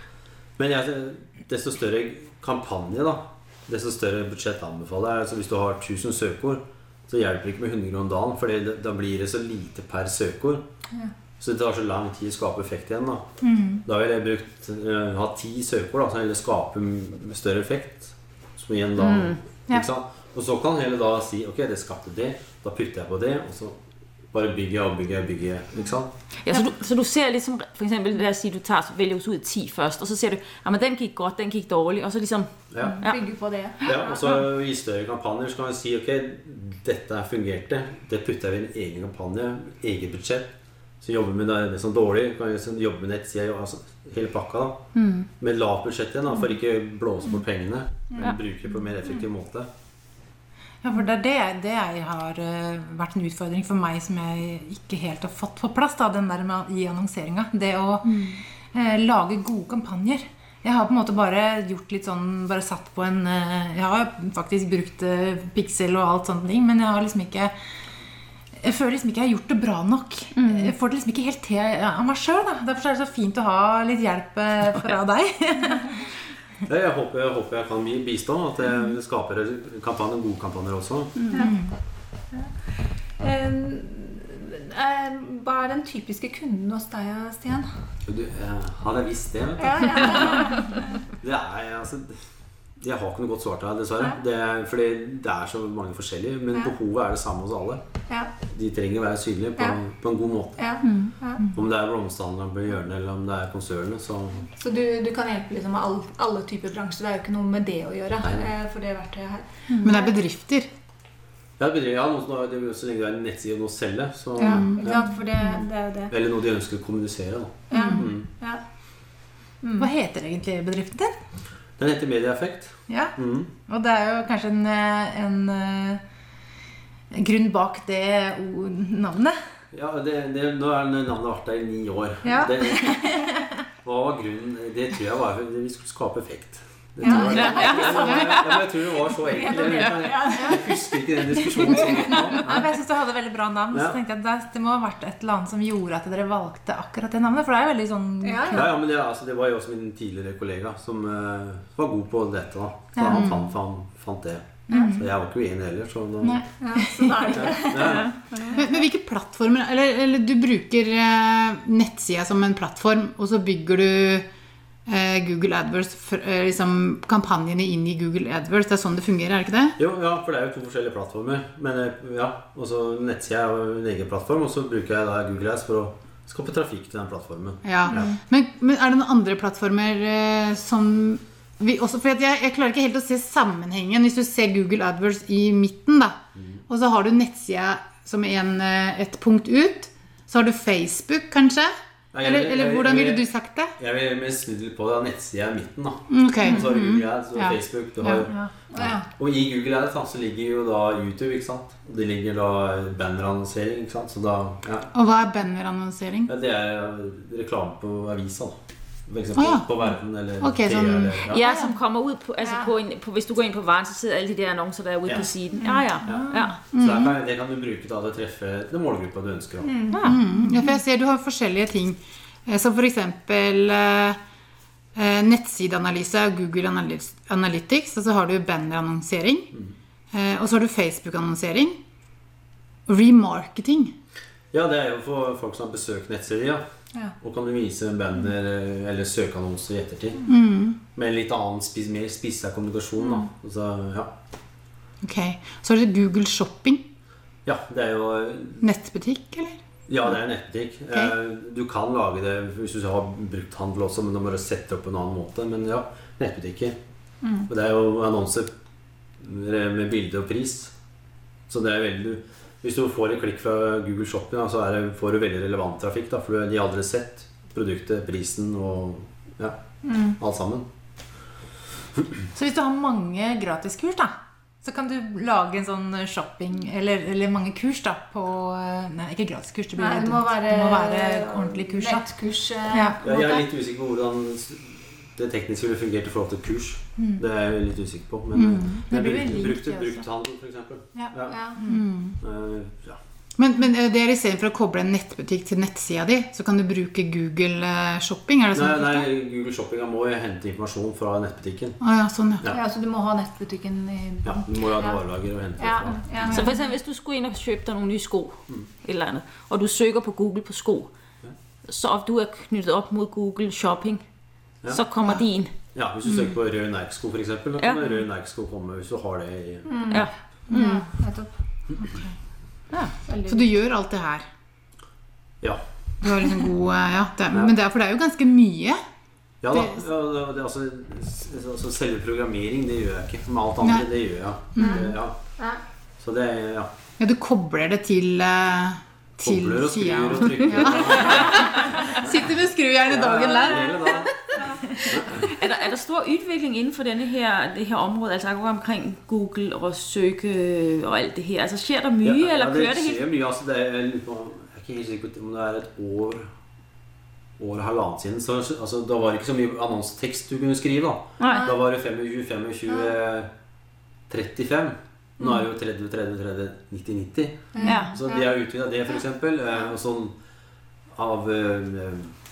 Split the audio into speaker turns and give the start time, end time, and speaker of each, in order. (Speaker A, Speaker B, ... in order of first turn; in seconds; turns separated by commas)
Speaker A: 0.6-10.6, Speaker A: 11.4-13.3, Speaker B: 13.4-13.8, Speaker A: 13.8-23.8, Speaker C: 19.0-19.4, Speaker A: 24.3-26.1, Speaker C: 26.4-33.2, Speaker A: 32.7-33.0, Speaker D: 33.0-34.2, Speaker A: 33.8-44.9, Speaker B: 45.0-45.3, Speaker A: 45.4-49.7, Speaker B: 50.8-67.5, Speaker B: 68.6-76.0, Speaker C: 70.4-70.7, Speaker A: 76.7-81.2, Speaker B: 81.3-81.7, Speaker D: 83.2-87.7, Speaker A: 88.1-90.4, Speaker D: 89.6-91.0, Speaker A: 91.2-92.2, Speaker A: 92.8-97.8, Speaker A: 98.5-100.6, Speaker D: 100.6-101.4, Speaker B: 100.8-101.5, Speaker A: 101.5-104.5, Speaker D: 104.5-110.2, Speaker A: 108.2-108.5, Speaker B: 109.7-110.0, Speaker E: 109.8-110.7, Speaker A: 111.6-115.1, Speaker E: 114.4-114.8, Speaker D: 114.4-116.1, Speaker A: 116.1-118.3, Speaker D: 117.7-118.6, Speaker D: 119.6-119.9, Speaker B: 119.8-121.2, Speaker A: 121.8-123.5, Speaker B: 122.9-126.0, Speaker B: 127.1-129.4, Speaker A: 129.7-133.1, Speaker B: 132.3-133.2, Speaker A: 133.8-142.6, Speaker B: 137.0-137.4, Speaker D: 137.0-138.2, Speaker E: 137.1-138.3, Speaker C: 137.2-138.4, Speaker D: 139.2-142.3, Speaker C: 139.6-139.9, Speaker B: 142.4-148.8, Speaker A: 143.7-144.0, Speaker D: 148.2-148.6, Speaker A: 148.5-156.4, Speaker B: 153.0-153.4, Speaker E: 153.1-153.5, Speaker B: 154.7-155.1, Speaker D: 154.7-155.0, Speaker B: 156.2-157.3, Speaker D: 156.6-158.6, Speaker A: 157.3-158.2, Speaker E: 158.5-164.2, Speaker E: 164.9-169.8, Speaker A: 169.8-178.1, Speaker E: 177.6-193.7, Speaker A: 186.4-186.6, Speaker A: 192.1-193.3, Speaker A: 193.8-204.9, Speaker E: 196.1-198.3, Speaker D: 198.7-199.1, Speaker E: 204.9-206.3, Speaker A: 206.3-208.6, Speaker A: 209.1-211.4, Speaker E: 209.4-209.7, Speaker E: 210.4-211.6, Speaker C: 211.2-216.6, Speaker D: 212.4-212.7, Speaker D: 215.6-216.4, Speaker A: 216.1-219.7, Speaker E: 216.7-217.1, Speaker D: 219.6-220.1, Speaker C: 219.9-220.2, Speaker E: 220.0-224.2, Speaker B: 220.4-220.7, Speaker E: 224.9-229.5, Speaker E: 230.1-231.8, Speaker E: 232.9-233.9, Speaker A: 234.5-236.6, Speaker A: 237.2-240.3, Speaker E: 240.3-240.8, Speaker A: 240.9-244.1, Speaker D: 243.0-243.3, Speaker E: 245.0-246.9, Speaker A: 247.4-248.6, Speaker E: 248.6-249.6, Speaker A: 249.9-256.8, Speaker D: 257.2-257.5, Speaker A: 257.5-258.5, Speaker A: 259.2-260.7, Speaker A: 261.5-270.6, Speaker D: 269.8-270.2, Speaker B: 272.3-282.1, Speaker D: 279.8-283.4, Speaker B: 282.7-283.0, Speaker A: 283.0-291.4, Speaker E: 288.4-288.8, Speaker B: 288.9-290.1, Speaker B: 290.9-291.9, Speaker D: 291.3-291.6, Speaker E: 291.6-292.2, Speaker A: 292.2-293.0, Speaker E: 293.4-299.1, Speaker A: 298.5-301.8, Speaker E: 301.8-302.5, Speaker D: 302.5-305.0, Speaker A: 304.2-306.3, Speaker D: 305.6-306.6, Speaker C: 306.3-310.9, Speaker C: 311.6-314.0, Speaker C: 314.7-315.6, Speaker A: 315.6-320.1, Speaker D: 319.6-322.0, Speaker C: 319.9-320.8, Speaker E: 320.5-320.8, Speaker D: 323.1-323.5, Speaker E: 323.3-324.3, Speaker E: 326.0-328.8, Speaker A: 329.4-335.1, Speaker E: 329.5-329.8, Speaker E: 333.6-333.9, Speaker E: 334.6-334.9, Speaker D: 334.6-335.6, Speaker A: 336.0-336.7, Speaker E: 337.0-344.4, Speaker A: 339.2-342.3, Speaker C: 341.0-341.8, Speaker A: 342.9-344.3, Speaker D: 344.4-344.9, Speaker A: 344.9-345.3, Speaker C: 345.1-353.0, Speaker A: 352.0-356.3, Speaker A: 357.4-363.3, Speaker C: 361.2-361.5, Speaker D: 361.3-361.5, Speaker A: 364.1-370.1, Speaker D: 365.2-365.4, Speaker D: 367.5-368.3, Speaker C: 367.6-368.0, Speaker A: 370.9-372.1